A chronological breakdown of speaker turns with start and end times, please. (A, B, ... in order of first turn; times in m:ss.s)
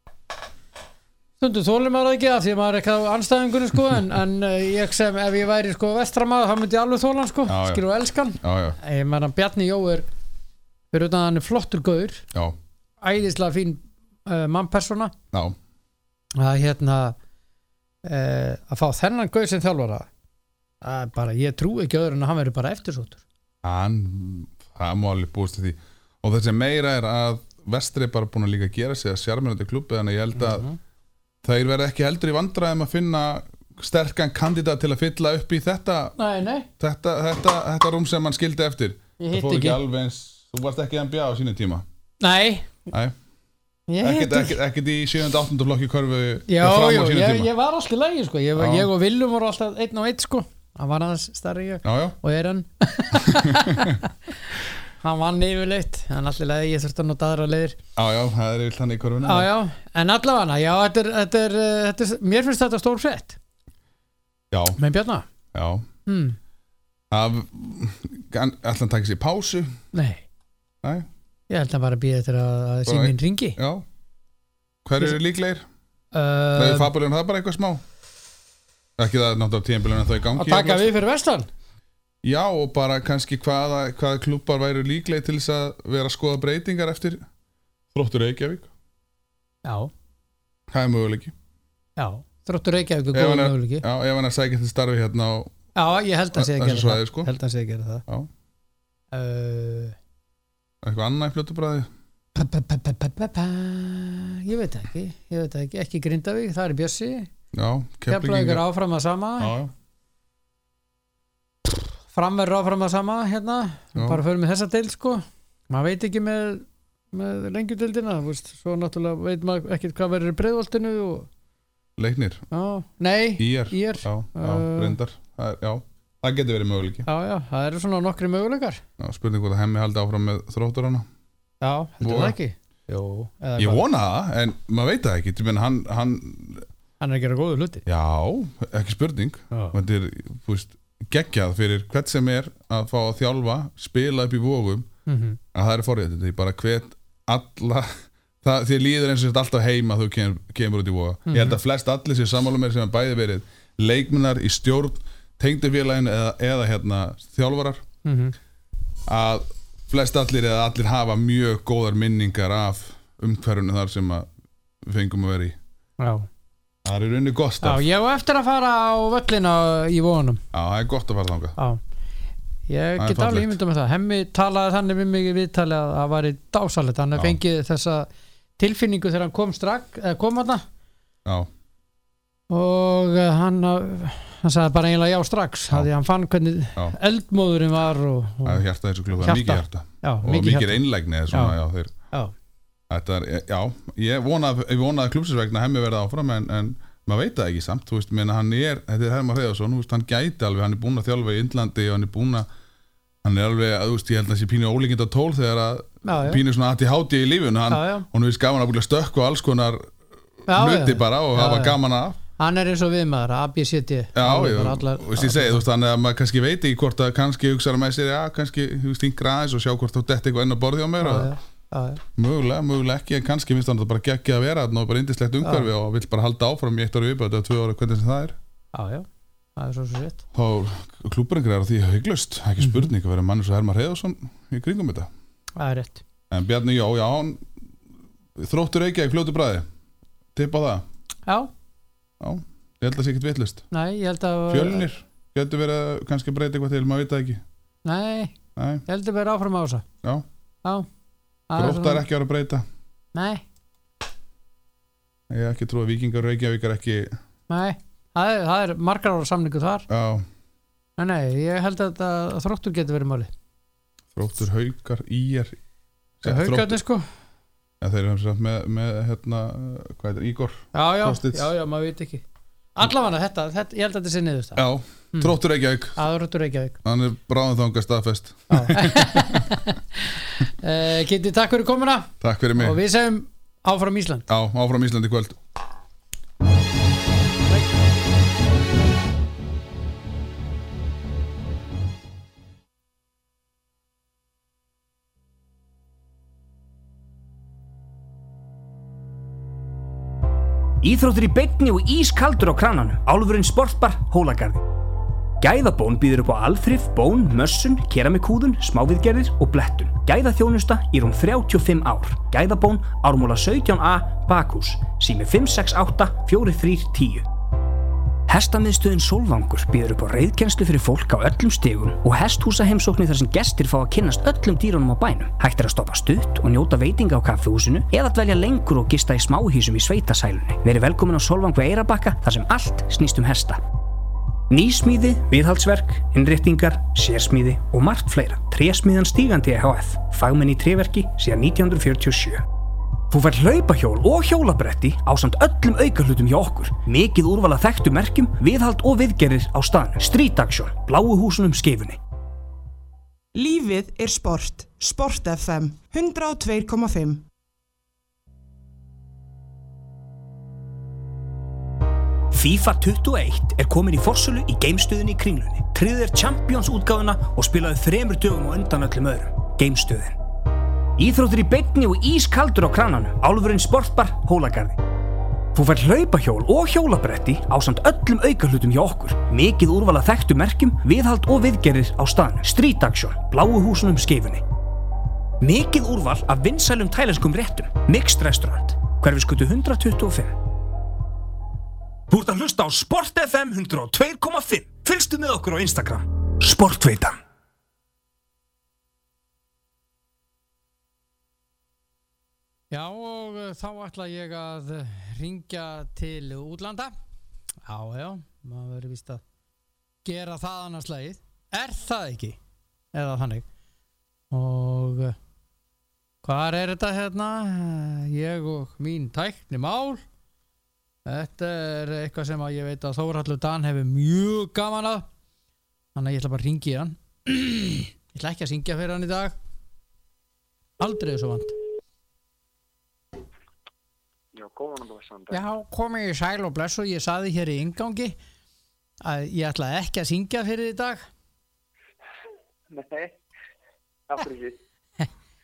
0:01.4-0:10.0 A
0:07.5-0:07.8 B
0:08.4-0:08.8 B
0:10.9-0:12.2 A
0:13.0-0:15.1 A
0:16.4-0:17.2 A
0:18.0-0:20.1 A
0:20.8-0:23.2 A
0:23.6-0:30.7 B
0:30.3-0:30.8 A
0:31.4-0:36.2 B
0:36.2-0:36.7 A
0:36.8-0:41.8 B
0:39.2-0:39.8 A
0:42.2-0:42.9 A
0:43.9-0:44.6 A
0:44.0-0:47.5 B
0:46.5-0:54.1 A
0:48.6-0:48.9 B
0:51.8-0:52.2 B
0:53.1-0:54.0 B
0:55.0-0:57.8 A
0:58.0-0:59.5 B
0:59.2-1:03.4 A
1:04.5-1:04.8 B
1:04.8-1:05.2 A
1:05.5-1:05.8 B
1:06.0-1:06.4 A
1:07.1-1:09.8 B
1:09.9-1:10.2 A
1:11.5-1:13.6 A
1:12.8-1:13.8 B
1:14.8-1:15.6 B
1:16.1-1:16.9 A
1:16.5-1:17.8 B
1:19.0-1:20.9 B
1:20.3-1:21.5 A
1:22.2-1:27.2 B
1:27.9-1:28.7 B
1:29.6-1:29.9 A
1:30.7-1:31.3 B
1:32.0-1:33.8 A
1:33.1-1:35.5 B
1:35.7-1:38.0 A
1:36.3-1:37.3 B
1:39.1-1:40.0 A
1:40.8-1:41.9 B
1:42.3-1:47.3 A
1:47.5-1:48.6 B
1:48.1-1:49.5 A
1:49.4-1:49.7 B
1:52.1-2:01.3 A
1:53.9-1:54.2 B
2:02.0-2:02.4 B
2:02.5-2:05.0 A
2:03.4-2:07.1 B
2:07.0-2:08.8 A
2:09.0-2:11.0 B
2:11.6-2:13.8 A
2:12.0-2:12.4 B
2:13.6-2:16.7 B
2:17.0-2:17.8 A
2:17.8-2:24.9 B
2:19.5-2:19.8 A
2:25.0-2:25.4 A
2:25.5-2:37.8 B
2:31.3-2:31.6 A
2:38.0-2:38.4 A
2:39.1-2:44.3 B
2:44.8-2:45.6 B
2:46.0-2:46.3 A
2:46.8-2:47.8 B
2:47.6-2:50.4 A
2:50.5-2:51.6 B
2:52.7-3:00.6 A
2:53.0-2:53.6 B
3:02.5-3:08.6 A
3:08.4-3:11.9 B
3:09.2-3:11.6 A
3:12.9-3:22.5 B
3:23.2-3:29.9 B
3:26.0-3:26.4 A
3:27.7-3:28.1 A
3:30.4-3:32.2 B
3:30.5-3:31.8 A
3:32.4-3:35.6 A
3:34.1-3:41.3 B
3:41.0-3:42.0 A
3:42.2-3:48.4 B
3:45.4-3:45.7 A
3:48.7-3:50.2 A
3:50.3-3:55.1 B
3:52.6-3:52.9 A
3:55.6-3:56.0 A
3:56.3-3:57.5 B
3:58.4-3:59.6 B
4:00.3-4:00.8 B
4:02.2-4:03.6 B
4:03.7-4:04.9 A
4:04.5-4:07.4 B
4:07.8-4:09.8 A
4:08.6-4:08.8 B
4:11.5-4:12.0 A
4:11.6-4:12.6 B
4:13.1-4:13.4 A
4:15.3-4:17.1 B
4:17.5-4:19.9 A
4:19.9-4:20.2 B
4:21.0-4:23.3 A
4:24.1-4:25.6 B
4:26.2-4:26.8 B
4:26.2-4:27.0 A
4:27.8-4:31.5 B
4:30.7-4:32.2 A
4:32.8-4:35.3 A
4:34.6-4:36.0 B
4:36.0-4:36.8 A
4:36.8-4:39.5 B
4:38.5-4:44.2 A
4:42.2-4:42.8 B
4:44.3-4:45.4 B
5:00.8-5:04.6 C
5:05.4-5:17.2 C
5:18.3-5:33.6 C
5:34.5-5:42.4 C
5:43.1-5:52.0 C
5:53.3-5:57.2 D
6:02.3-6:10.2 C
6:11.0-6:14.8 C
6:15.5-6:24.4 C
6:25.4-6:30.4 C
6:32.1-6:37.2 C
6:42.7-6:46.9 A
6:47.6-6:49.2 A
6:50.0-6:52.4 A
6:52.9-6:53.4 A
6:54.3-6:55.2 A
6:56.2-7:00.0 A
7:01.0-7:05.1 A
7:05.9-7:09.3 A
7:10.8-7:11.5 A
7:14.3-7:15.4 E
7:15.3-7:18.2 A
7:19.0-7:21.0 A
7:22.7-7:23.2 E
7:24.1-7:24.6 E